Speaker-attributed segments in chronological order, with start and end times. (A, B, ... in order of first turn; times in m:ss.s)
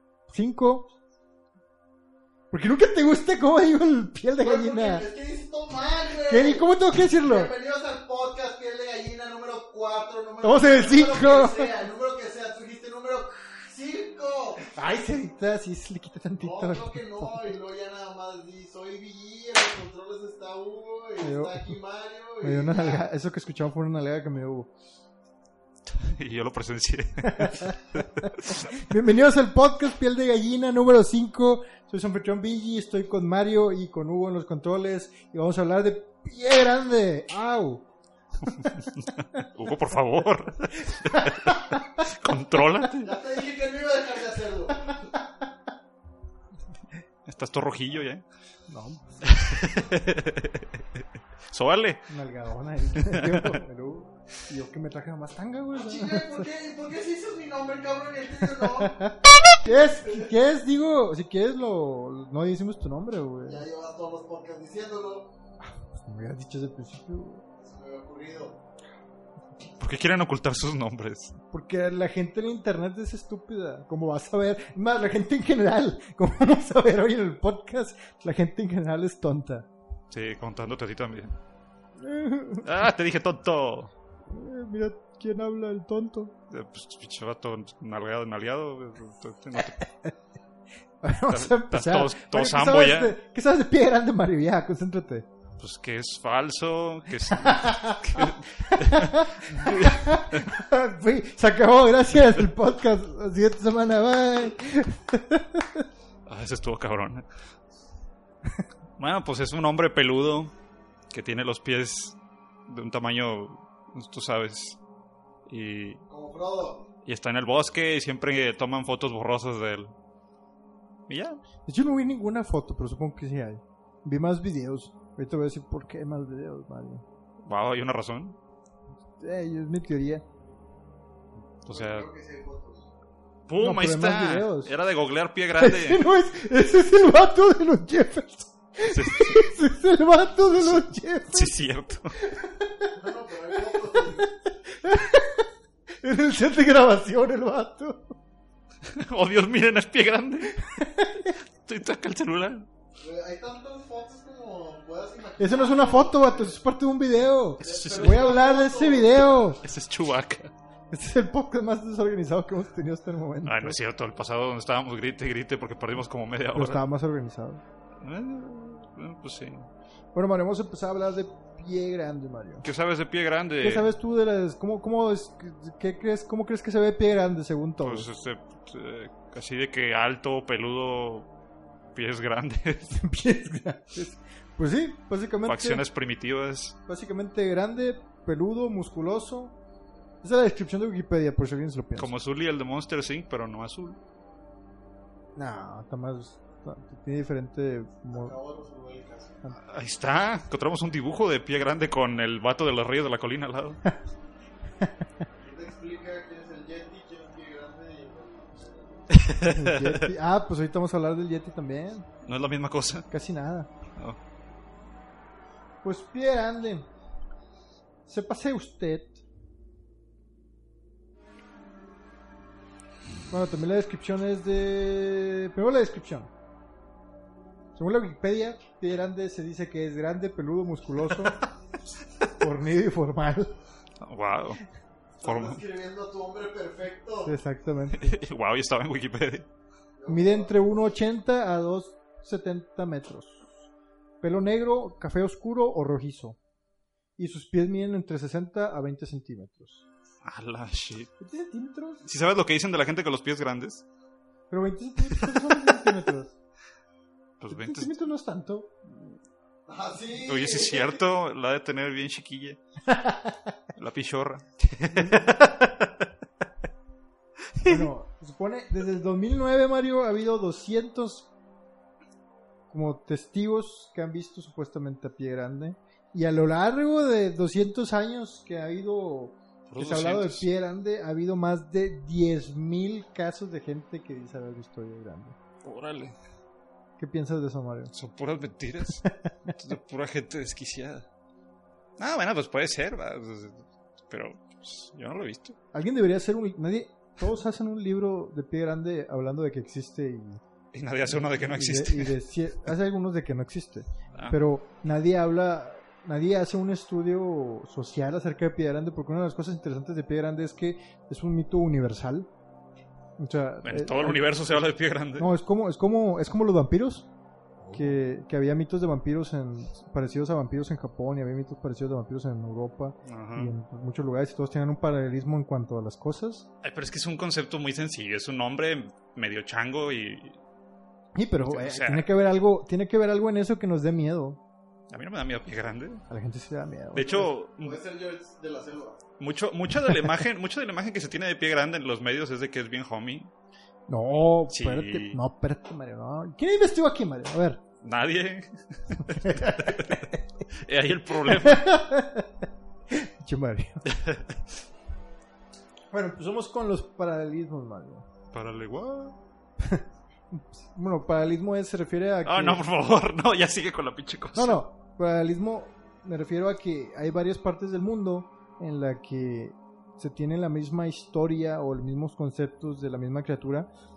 0:00.3-0:00.9 A
0:02.5-0:05.0 A
0:04.4-0:14.7 B
0:06.3-0:07.5 A
0:10.4-0:11.7 A
0:14.7-0:17.5 A
0:16.4-0:23.0 B
0:21.2-0:21.7 A
0:22.4-0:24.7 A
0:25.8-0:28.7 C
0:27.2-0:37.8 A
0:38.5-0:38.8 A
0:38.6-0:43.1 C
0:40.8-0:41.8 A
0:43.0-0:44.9 B
0:47.2-0:48.2 C
0:48.7-0:49.2 A
0:49.2-0:52.0 C
0:52.1-0:56.4 A
0:52.9-0:53.6 C
0:55.7-0:59.1 B
0:58.6-1:03.6 A
1:03.4-1:05.3 B
1:05.6-1:07.4 A
1:07.6-1:08.6 B
1:09.8-1:11.4 C
1:11.5-1:19.7 A
1:20.1-1:21.4 C
1:22.0-1:22.8 A
1:22.6-1:23.9 C
1:24.3-1:26.3 A
1:26.5-1:29.8 C
1:31.0-1:35.3 A
1:31.3-1:33.2 C
1:35.6-1:40.5 C
1:37.3-1:45.8 A
1:46.2-1:47.3 C
1:49.0-1:50.5 C
1:51.1-1:54.8 C
1:55.5-1:56.0 C
1:56.1-1:56.9 B
1:57.0-1:59.9 C
2:01.1-2:01.4 C
2:01.6-2:07.0 A
2:07.4-2:08.4 C
2:09.2-2:10.2 A
2:11.6-2:12.1 C
2:11.7-2:12.9 B
2:13.5-2:16.0 C
2:13.6-2:14.7 A
2:15.6-2:21.6 A
2:18.8-2:19.5 C
2:20.6-2:22.2 C
2:22.2-2:22.9 A
2:22.9-2:24.3 B
2:23.7-2:25.4 A
2:26.0-2:28.1 A
2:28.8-2:30.6 C
2:30.6-2:31.4 A
2:31.6-2:32.7 C
2:33.0-2:36.6 B
2:35.4-2:39.6 A
2:37.6-2:39.6 B
2:37.6-2:38.3 C
2:39.6-2:40.5 C
2:40.9-2:43.8 A
2:43.4-2:46.8 C
2:46.5-2:47.6 A
2:48.0-2:49.7 C
2:50.1-2:52.7 A
2:52.6-2:53.9 C
2:53.6-2:58.1 A
2:57.8-3:01.3 C
3:01.9-3:03.0 C
3:02.9-3:05.8 A
3:05.4-3:06.8 C
3:06.8-3:09.6 A
3:10.2-3:12.1 A
3:12.0-3:14.0 C
3:15.4-3:18.3 A
3:18.1-3:19.4 B
3:19.6-3:23.8 C
3:25.4-3:29.2 B
3:29.1-3:30.1 C
3:29.4-3:32.1 A
3:32.2-3:33.1 C
3:33.1-3:33.7 A
3:35.8-3:36.9 A
3:38.0-3:39.2 A
3:43.3-3:46.3 A
3:47.7-3:51.4 A
3:52.3-3:53.5 A
3:54.0-3:54.6 C
3:55.2-3:57.3 B
3:55.2-3:55.6 C
3:57.2-3:58.2 A
3:57.9-3:59.5 C
4:00.0-4:00.8 B
4:00.0-4:03.5 A
4:04.2-4:06.4 A
4:07.2-4:09.8 A
4:10.2-4:11.1 C
4:11.2-4:12.0 A
4:12.0-4:13.8 C
4:14.5-4:16.3 A
4:15.1-4:15.9 C
4:17.4-4:17.9 C
4:17.5-4:18.8 A
4:19.7-4:21.0 B
4:20.2-4:22.6 C
4:22.9-4:23.4 A
4:23.7-4:26.1 C
4:27.6-4:27.9 C
4:27.6-4:31.3 A
4:32.7-4:45.4 A
4:39.7-4:40.5 C
4:45.6-4:46.2 C
4:47.0-4:47.9 A
4:47.9-4:51.1 C
4:49.0-4:49.6 A
4:52.0-4:55.6 C
4:55.7-5:00.4 A
5:00.7-5:02.2 C
5:01.1-5:12.3 A
5:13.2-5:14.3 A
5:13.6-5:15.3 C
5:15.2-5:17.1 A
5:17.6-5:17.9 C
5:17.7-5:26.4 A
5:23.0-5:23.5 C
5:26.6-5:30.4 C
5:31.2-5:34.4 A
5:31.4-5:32.1 C
5:34.9-5:36.0 C
5:36.1-5:37.3 A
5:36.9-5:37.8 C
5:37.6-5:39.0 B
5:39.2-5:43.3 C
5:43.9-5:47.6 A
5:44.5-5:45.2 C
5:47.8-5:51.7 C
5:49.0-5:50.2 A
5:51.2-5:52.3 A
5:52.9-5:53.8 A
5:53.8-5:54.6 C
5:55.9-5:58.1 A
5:58.3-5:59.2 C
5:59.6-6:02.6 A
6:02.2-6:04.6 C
6:04.3-6:13.7 A